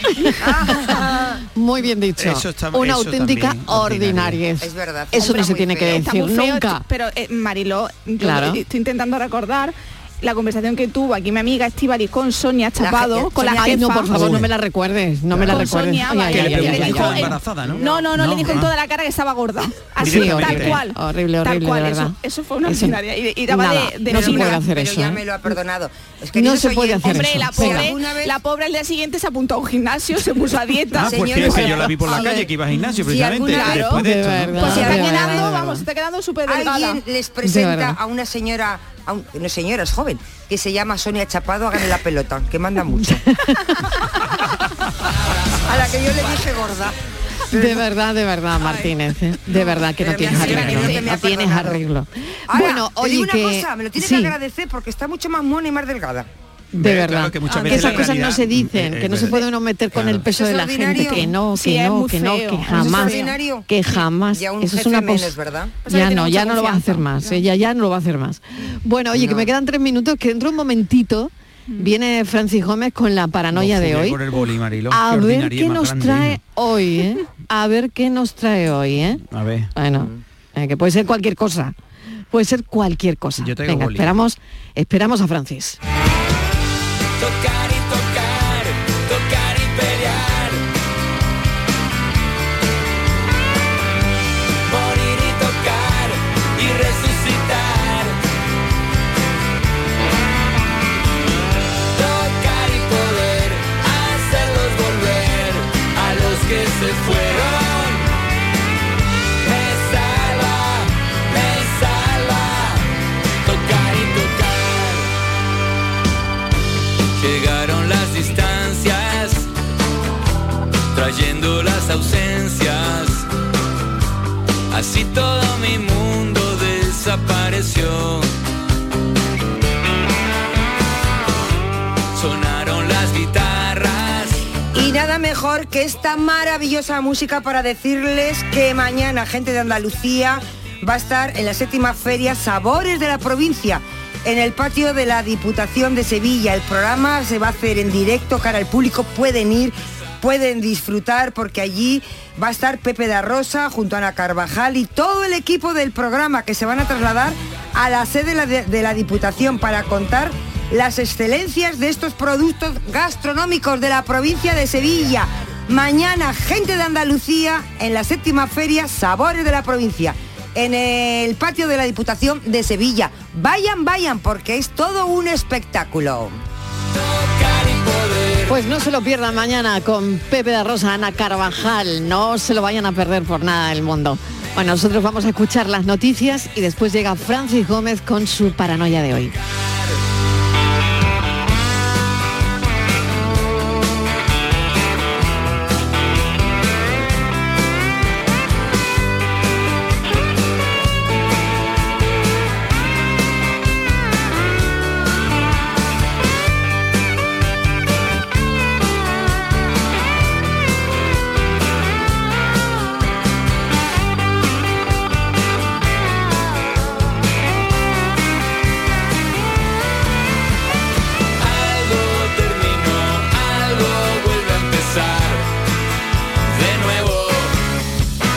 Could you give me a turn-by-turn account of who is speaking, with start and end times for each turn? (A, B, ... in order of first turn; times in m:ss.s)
0:00.2-0:00.9 A
0:00.4-0:01.3 B
0:01.5-0:06.8 A
0:02.2-0:04.4 C
0:04.6-0:06.1 B
0:05.9-0:14.2 D
0:08.2-0:08.6 A
0:12.8-0:13.8 B
0:13.6-0:17.3 A
0:14.1-0:14.5 C
0:15.3-0:18.7 C
0:15.5-0:24.6 D
0:17.7-0:18.6 B
0:20.0-0:20.8 C
0:20.0-0:25.2 A
0:24.1-0:28.4 B
0:26.3-0:27.9 A
0:27.0-0:32.4 D
0:30.9-0:35.0 C
0:31.0-0:32.5 B
0:33.0-0:33.9 B
0:33.5-0:33.9 D
0:33.8-0:35.8 A
0:34.6-0:37.0 D
0:34.6-0:35.5 B
0:36.4-0:43.2 B
0:37.4-0:38.0 A
0:43.1-0:43.8 A
0:45.6-0:47.0 B
0:47.5-0:54.3 A
0:48.6-0:48.9 D
0:50.0-0:51.8 B
0:50.2-0:51.1 D
0:52.5-0:56.3 B
0:56.7-0:59.4 C
0:56.8-1:05.4 A
0:57.5-0:58.1 D
0:59.9-1:00.2 C
1:00.3-1:01.3 B
1:01.5-1:03.3 D
1:02.7-1:05.8 B
1:05.8-1:07.4 D
1:05.9-1:14.2 A
1:09.1-1:09.5 B
1:13.5-1:16.4 C
1:14.9-1:19.2 A
1:19.3-1:19.7 C
1:19.7-1:21.7 A
1:22.3-1:25.8 A
1:23.4-1:24.1 C
1:27.2-1:30.6 E
1:34.7-1:38.2 E
1:41.9-1:48.1 E
1:49.4-1:52.9 E
1:53.4-1:55.1 E
1:57.2-1:59.5 E
2:00.9-2:03.2 E
2:04.7-2:08.3 E
2:12.1-2:14.4 E
2:14.7-2:56.4 B
2:56.9-2:58.5 E
2:58.5-3:09.3 A
3:41.4-3:45.5 E
3:46.5-3:47.6 E